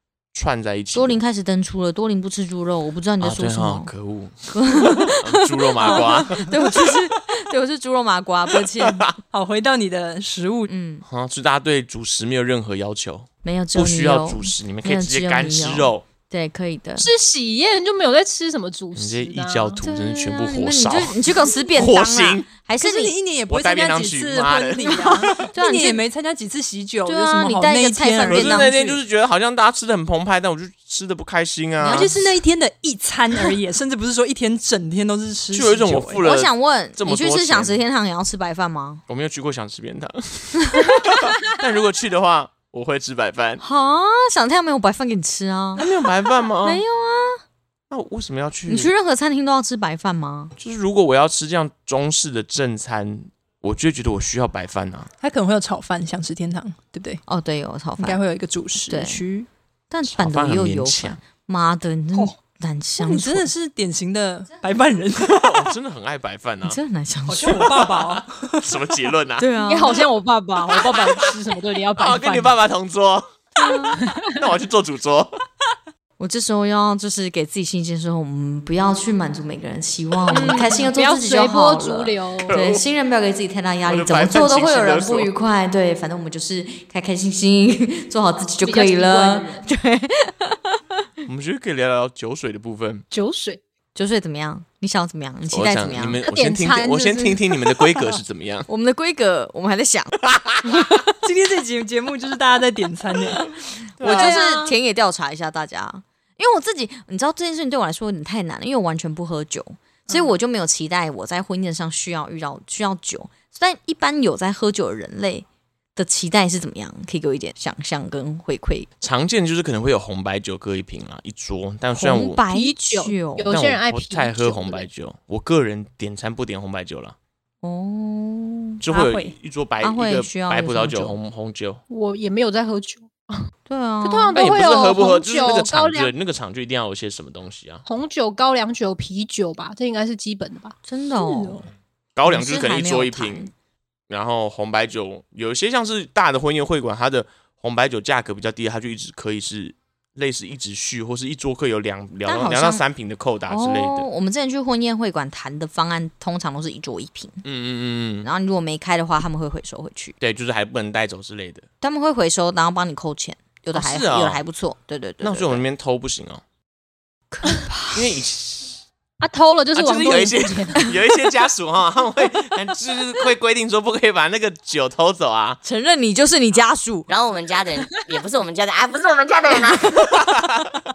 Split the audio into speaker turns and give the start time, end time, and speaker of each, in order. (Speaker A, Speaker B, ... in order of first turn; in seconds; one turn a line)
Speaker A: 0.3-1.2
Speaker B: 0.9-3.9
Speaker A: 3.2-6.9
Speaker B: 4.5-9.1
Speaker A: 8.8-9.1
Speaker C: 9.3-10.7
Speaker B: 10.7-11.1
Speaker A: 11.1-16.1
Speaker B: 13.4-17.1
Speaker D: 17.0-19.8
Speaker A: 18.9-22.5
Speaker B: 19.8-23.2
Speaker C: 22.8-29.0
Speaker A: 23.5-25.5
Speaker B: 24.8-26.0
Speaker B: 27.1-28.7
Speaker A: 28.2-32.1
Speaker B: 31.8-32.2
Speaker C: 31.9-36.2
Speaker A: 35.5-37.8
Speaker B: 36.2-39.0
Speaker A: 39.1-43.6
Speaker B: 40.7-41.0
Speaker B: 43.6-45.9
Speaker A: 45.8-46.8
Speaker B: 46.6-47.4
Speaker A: 47.9-48.9
Speaker B: 48.7-50.5
Speaker A: 50.6-55.1
Speaker C: 55.2-57.2
Speaker B: 57.3-58.2
Speaker C: 58.0-59.5
Speaker B: 58.9-59.2
Speaker B: 59.9-63.5
Speaker A: 60.0-61.2
Speaker C: 63.0-65.7
Speaker A: 65.2-66.8
Speaker B: 66.6-67.9
Speaker C: 67.3-68.8
Speaker A: 67.5-69.5
Speaker B: 69.4-70.0
Speaker D: 69.6-72.5
Speaker A: 70.7-71.3
Speaker A: 72.0-75.3
Speaker B: 73.6-74.0
Speaker D: 74.0-74.4
Speaker B: 76.2-90.8
Speaker D: 80.3-82.5
Speaker A: 82.4-82.8
Speaker A: 83.9-85.3
Speaker D: 88.6-89.7
Speaker A: 91.3-93.0
Speaker D: 93.1-93.6
Speaker B: 94.0-96.2
Speaker A: 95.5-98.7
Speaker D: 96.3-97.9
Speaker B: 98.7-100.1
Speaker A: 100.2-100.6
Speaker B: 100.6-101.0
Speaker C: 101.2-103.5
Speaker A: 104.0-104.4
Speaker B: 104.0-118.9
Speaker D: 104.0-104.7
Speaker A: 119.0-122.4
Speaker B: 122.0-123.5
Speaker D: 122.5-124.9
Speaker A: 123.5-127.2
Speaker B: 127.6-128.8
Speaker A: 128.8-131.8
Speaker C: 128.9-129.3
Speaker B: 129.8-131.2
Speaker D: 131.9-133.4
Speaker B: 133.7-134.4
Speaker D: 134.0-136.1
Speaker A: 134.3-137.8
Speaker D: 137.9-140.8
Speaker B: 140.9-141.7
Speaker C: 141.2-141.6
Speaker A: 142.2-143.5
Speaker B: 142.2-143.5
Speaker A: 144.1-154.1
Speaker B: 152.3-152.8
Speaker B: 153.5-157.4
Speaker A: 157.4-158.3
Speaker B: 158.2-160.1
Speaker A: 160.2-161.7
Speaker B: 161.8-165.6
Speaker A: 163.7-164.4
Speaker A: 165.2-166.4
Speaker B: 167.3-168.0
Speaker A: 167.9-168.8
Speaker D: 169.2-170.9
Speaker A: 169.7-175.6
Speaker B: 175.6-177.1
Speaker E: 177.1-180.1
Speaker A: 179.9-180.7